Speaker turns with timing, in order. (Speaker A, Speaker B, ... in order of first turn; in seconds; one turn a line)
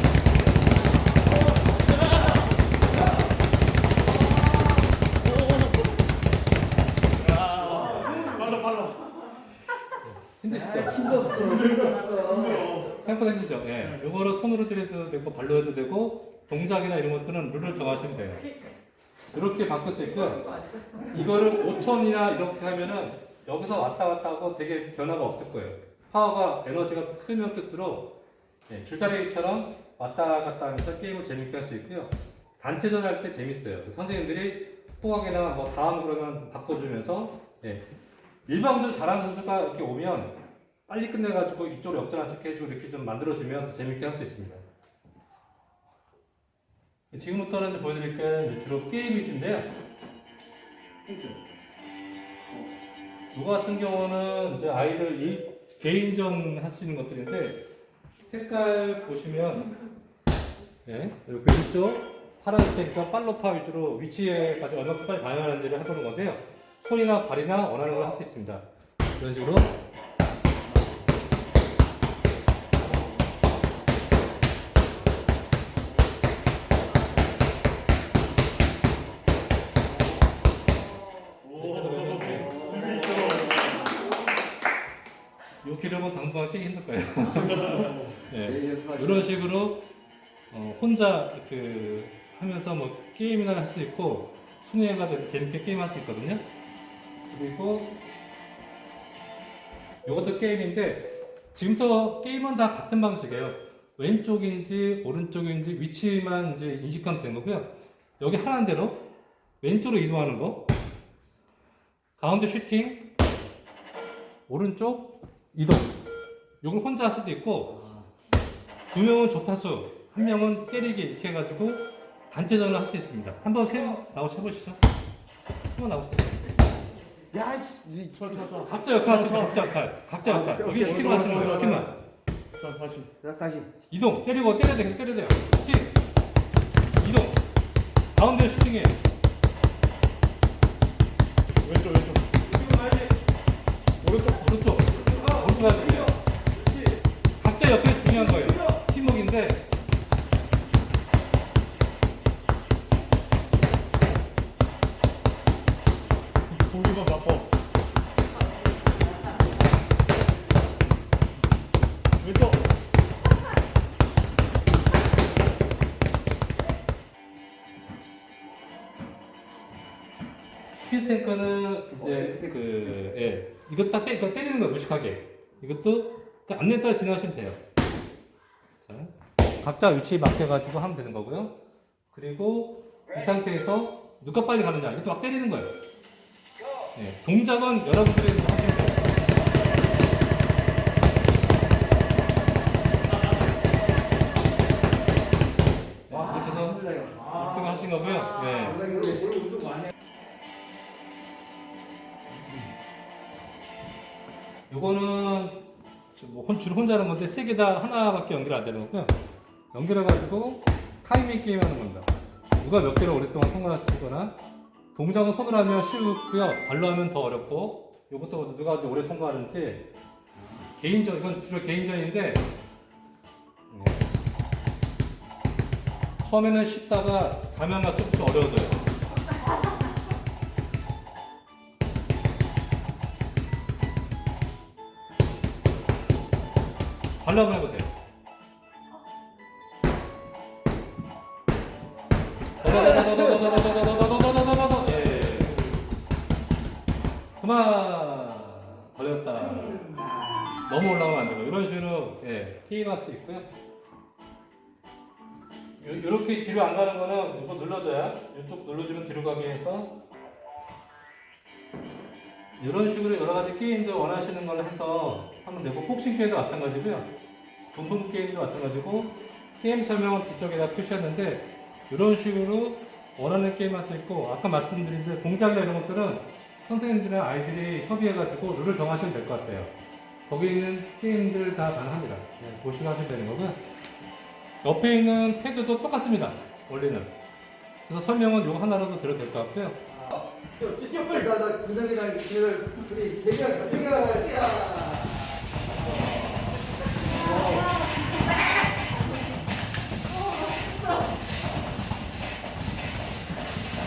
Speaker A: 5.4-5.7
Speaker A: 7.2-9.1
Speaker B: 7.8-8.6
Speaker B: 10.1-11.6
Speaker C: 10.5-12.8
Speaker A: 11.4-12.9
Speaker B: 12.8-18.6
Speaker B: 19.3-28.1
Speaker B: 28.7-37.8
Speaker B: 38.5-44.6
Speaker B: 47.1-49.7
Speaker C: 51.0-51.4
Speaker B: 53.3-57.6
Speaker B: 58.2-59.7
Speaker B: 60.9-68.7
Speaker B: 69.2-69.8
Speaker A: 81.5-83.9
Speaker B: 81.5-83.7
Speaker B: 85.6-89.9
Speaker C: 88.4-89.4
Speaker B: 90.5-96.5
Speaker B: 97.3-98.0
Speaker B: 100.0-109.0
Speaker B: 109.6-110.7
Speaker B: 112.2-113.1
Speaker B: 114.5-116.0
Speaker B: 116.6-117.9
Speaker B: 118.9-124.8
Speaker B: 125.8-126.5
Speaker C: 127.3-128.7
Speaker A: 128.2-129.6
Speaker B: 128.6-131.9
Speaker C: 130.2-131.9
Speaker A: 130.7-131.8
Speaker A: 132.6-133.1
Speaker C: 133.2-133.7
Speaker B: 133.9-136.0
Speaker B: 136.9-137.4
Speaker B: 138.2-139.0
Speaker A: 141.6-142.3
Speaker B: 142.5-143.1
Speaker B: 144.0-146.2
Speaker B: 147.4-149.7
Speaker A: 156.5-157.5
Speaker A: 162.2-162.6
Speaker B: 170.7-177.6
Speaker C: 171.9-173.0
Speaker B: 178.8-181.6
Speaker B: 182.1-185.8
Speaker B: 186.9-189.5
Speaker B: 196.1-199.0
Speaker C: 196.1-197.9
Speaker C: 198.6-199.8
Speaker B: 204.7-209.2
Speaker B: 209.7-214.4
Speaker B: 214.9-219.9
Speaker B: 220.8-222.5
Speaker B: 223.7-224.1
Speaker B: 226.2-228.9
Speaker B: 237.2-237.9
Speaker B: 242.6-245.6
Speaker B: 247.4-249.9
Speaker C: 249.9-250.4
Speaker B: 250.6-253.5
Speaker B: 255.8-260.0
Speaker B: 262.6-267.2
Speaker B: 267.7-279.7
Speaker B: 280.3-283.6
Speaker B: 284.6-287.1
Speaker B: 287.9-289.9
Speaker C: 290.0-295.4
Speaker B: 290.6-291.0
Speaker C: 297.1-297.8